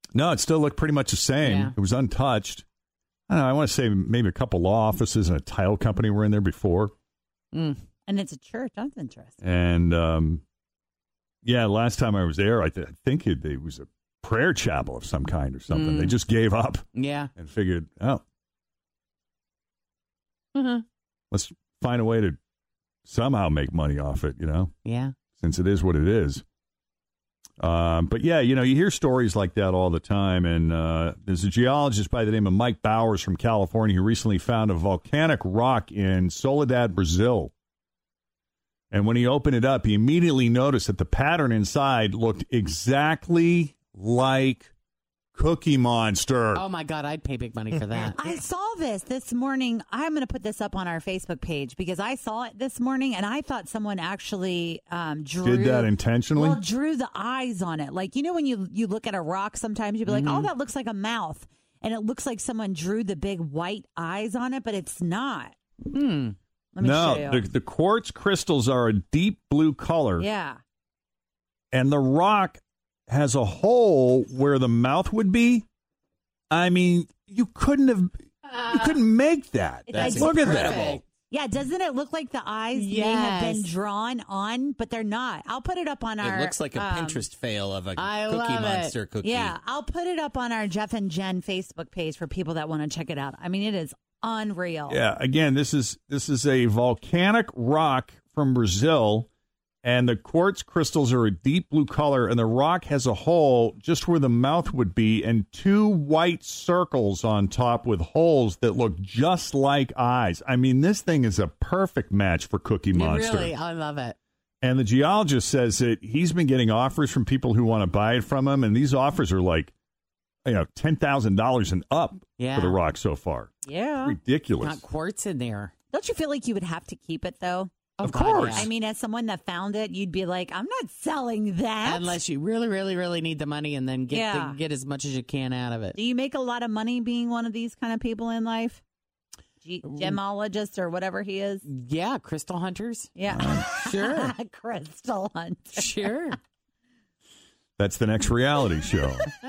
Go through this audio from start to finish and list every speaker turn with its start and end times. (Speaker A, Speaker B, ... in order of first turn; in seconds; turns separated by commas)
Speaker A: 0.1-2.6, Speaker B: 1.4-1.8, Speaker A: 3.3-6.9, Speaker B: 7.5-7.8, Speaker C: 8.1-9.4, Speaker A: 9.4-10.4, Speaker A: 11.4-18.2, Speaker B: 15.7-16.2, Speaker B: 17.0-17.3, Speaker B: 20.6-20.8, Speaker A: 21.3-22.4, Speaker A: 23.1-24.7, Speaker B: 24.9-25.1, Speaker A: 25.4-26.4, Speaker A: 27.6-37.5, Speaker A: 38.9-44.7, Speaker A: 45.3-46.6, Speaker B: 46.5-48.3, Speaker C: 48.1-65.5, Speaker A: 55.4-56.6, Speaker B: 60.1-60.5, Speaker B: 65.9-66.4, Speaker C: 66.7-67.5, Speaker A: 66.8-70.3, Speaker C: 70.2-70.6, Speaker A: 71.7-75.7, Speaker A: 76.5-80.9, Speaker C: 79.9-87.2, Speaker B: 79.9-81.0, Speaker D: 80.0-81.0, Speaker B: 82.8-83.7, Speaker D: 86.2-89.5, Speaker B: 88.0-89.0, Speaker C: 89.2-95.0, Speaker A: 94.9-99.3, Speaker A: 99.8-113.5, Speaker B: 112.9-114.2, Speaker A: 114.6-119.7, Speaker A: 120.5-124.8, Speaker B: 122.4-122.8, Speaker C: 123.7-124.2, Speaker B: 124.6-125.7, Speaker C: 125.9-127.7, Speaker B: 128.0-128.7, Speaker A: 128.0-128.7, Speaker C: 128.4-132.2, Speaker B: 131.8-136.0, Speaker C: 134.1-134.6, Speaker C: 135.9-138.8, Speaker C: 139.6-141.7, Speaker B: 139.8-140.2, Speaker B: 141.7-143.1, Speaker C: 143.2-146.2, Speaker A: 143.3-143.7, Speaker B: 143.8-144.3, Speaker B: 145.7-146.4, Speaker A: 147.8-149.3